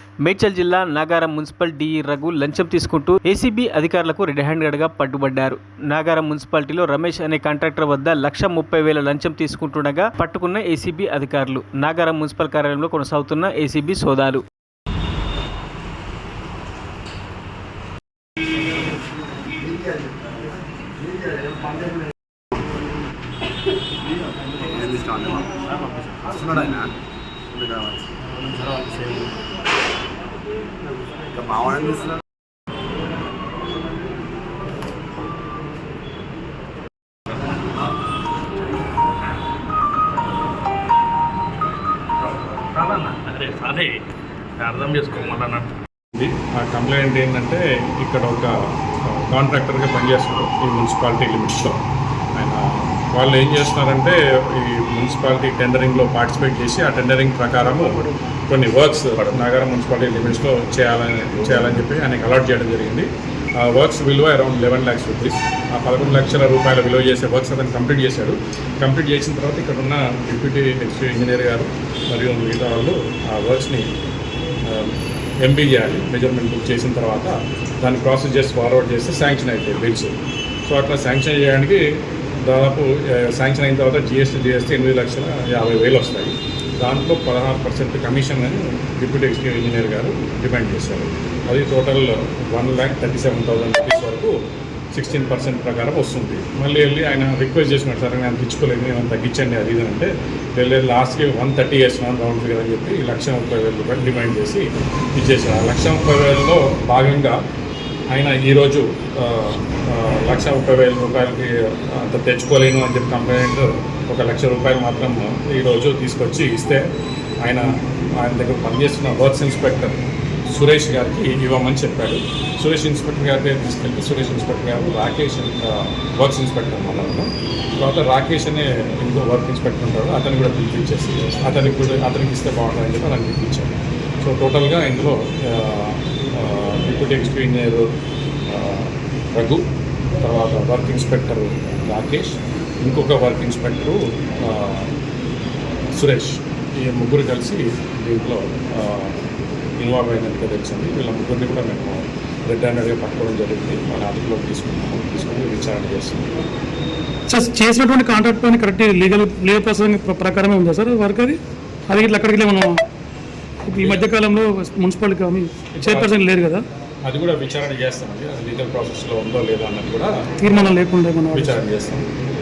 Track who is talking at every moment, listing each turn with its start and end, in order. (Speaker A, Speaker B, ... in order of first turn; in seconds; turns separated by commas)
Speaker A: 0.2-14.4, Speaker B: 24.7-25.7, Speaker B: 26.2-26.9, Speaker B: 27.5-28.1, Speaker B: 31.3-32.2, Speaker C: 42.7-43.9, Speaker C: 44.6-45.7, Speaker D: 46.1-48.5, Speaker D: 49.1-51.8, Speaker D: 52.4-57.9, Speaker D: 58.5-73.9, Speaker D: 74.7-80.1, Speaker D: 80.7-81.8, Speaker D: 82.5-94.3, Speaker D: 94.9-107.4, Speaker D: 108.1-116.8, Speaker D: 117.5-120.0, Speaker D: 120.5-137.9, Speaker D: 138.5-139.6, Speaker D: 140.2-144.9, Speaker D: 145.9-149.2, Speaker D: 149.8-156.3, Speaker E: 157.3-162.7, Speaker E: 163.7-166.6, Speaker D: 163.7-164.1, Speaker D: 165.7-166.2, Speaker D: 167.1-170.1, Speaker E: 170.4-171.6, Speaker D: 171.3-172.1